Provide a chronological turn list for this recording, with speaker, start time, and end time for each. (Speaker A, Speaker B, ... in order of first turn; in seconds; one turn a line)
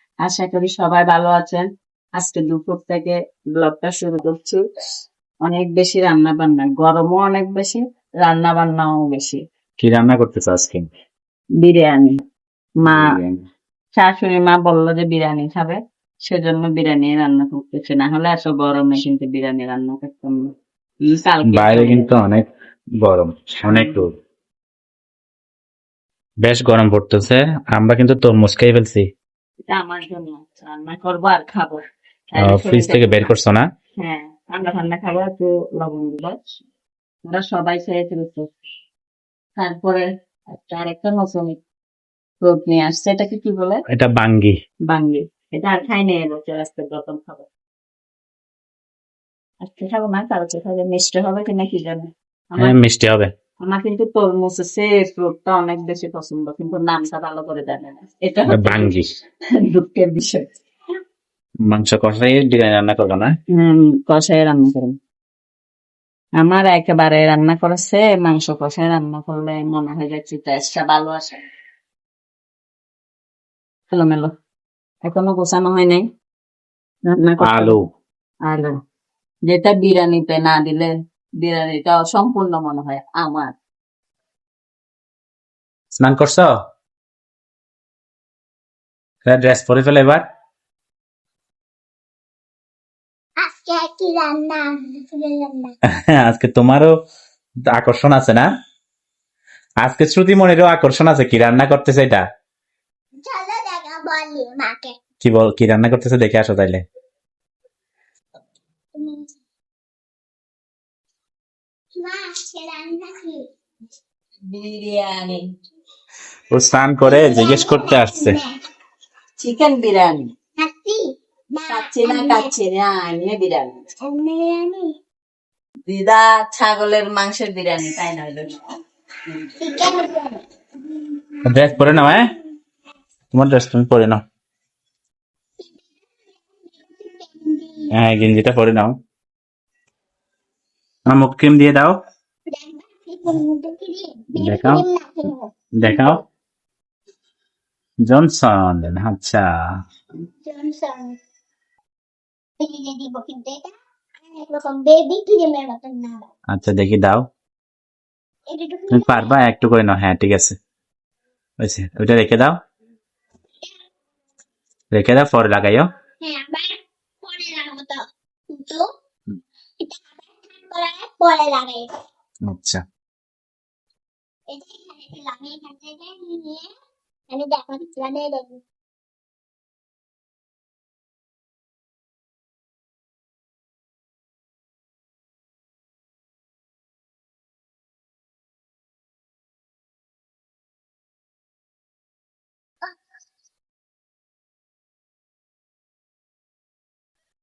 Speaker A: 0.2-4.6
Speaker A: 5.4-9.4
Speaker B: 9.8-10.9
Speaker A: 11.6-12.2
Speaker A: 12.8-13.1
Speaker B: 12.9-13.4
Speaker A: 13.9-20.5
Speaker A: 21.1-22.1
Speaker B: 21.5-22.5
Speaker B: 23.0-24.1
Speaker A: 23.7-24.0
Speaker B: 26.4-29.1
Speaker A: 29.7-33.3
Speaker B: 32.4-33.7
Speaker A: 34.0-36.4
Speaker A: 37.2-38.5
Speaker A: 39.5-41.6
Speaker A: 42.4-43.8
Speaker B: 43.9-44.6
Speaker A: 44.9-47.5
Speaker A: 49.6-52.8
Speaker B: 52.6-53.3
Speaker A: 53.6-59.0
Speaker B: 58.5-59.0
Speaker A: 59.6-60.5
Speaker B: 61.7-63.3
Speaker A: 63.5-65.0
Speaker A: 66.4-71.4
Speaker A: 73.9-74.3
Speaker A: 75.0-76.0
Speaker A: 77.0-77.7
Speaker B: 77.4-77.8
Speaker A: 78.4-78.8
Speaker A: 79.5-83.5
Speaker B: 86.0-86.5
Speaker B: 89.2-90.2
Speaker C: 93.4-95.7
Speaker B: 95.9-96.9
Speaker B: 97.7-98.5
Speaker B: 99.8-102.2
Speaker C: 103.2-104.9
Speaker B: 105.2-106.8
Speaker C: 108.9-109.2
Speaker C: 112.0-113.5
Speaker A: 114.5-115.5
Speaker B: 116.5-118.4
Speaker C: 117.0-118.6
Speaker A: 119.4-120.3
Speaker C: 120.6-122.5
Speaker A: 121.7-123.8
Speaker C: 124.0-124.9
Speaker A: 125.9-128.6
Speaker A: 129.3-129.5
Speaker C: 129.6-132.2
Speaker B: 131.4-132.2
Speaker B: 133.3-134.2
Speaker C: 136.7-137.9
Speaker B: 137.9-138.9
Speaker B: 141.1-142.0
Speaker C: 142.5-145.9
Speaker B: 144.4-144.8
Speaker B: 145.8-146.2
Speaker B: 148.1-149.5
Speaker C: 150.4-151.2
Speaker C: 152.6-153.7
Speaker C: 154.3-156.2
Speaker B: 156.5-157.3
Speaker C: 158.5-159.3
Speaker B: 158.9-160.5
Speaker B: 161.6-162.6
Speaker B: 164.9-165.9
Speaker C: 166.2-168.8
Speaker C: 169.8-171.9
Speaker B: 172.5-172.8
Speaker C: 174.5-176.7
Speaker C: 177.3-178.6